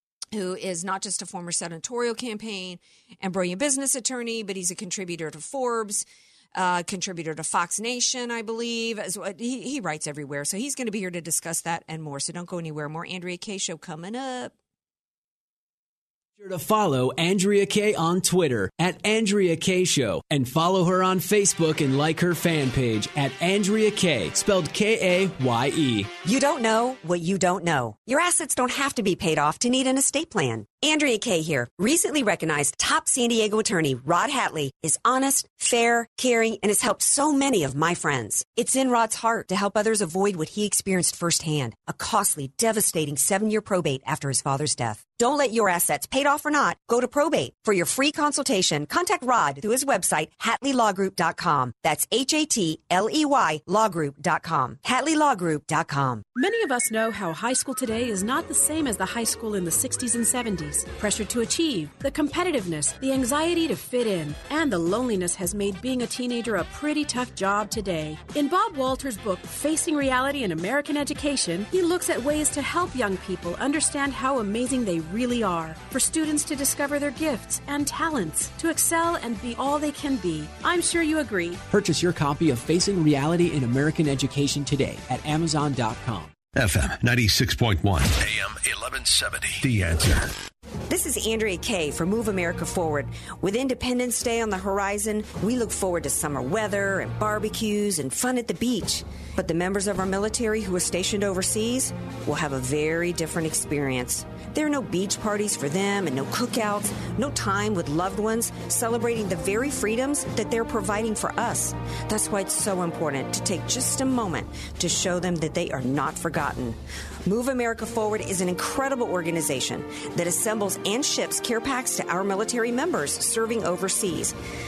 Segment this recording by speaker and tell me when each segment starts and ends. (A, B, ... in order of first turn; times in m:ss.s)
0:00.3-0:14.5 A
0:16.4-0:26.1 B
0:26.2-0:56.2 C
0:56.4-1:21.6 D
1:21.7-1:26.3 B
1:26.5-1:30.3 E
1:30.9-2:04.4 C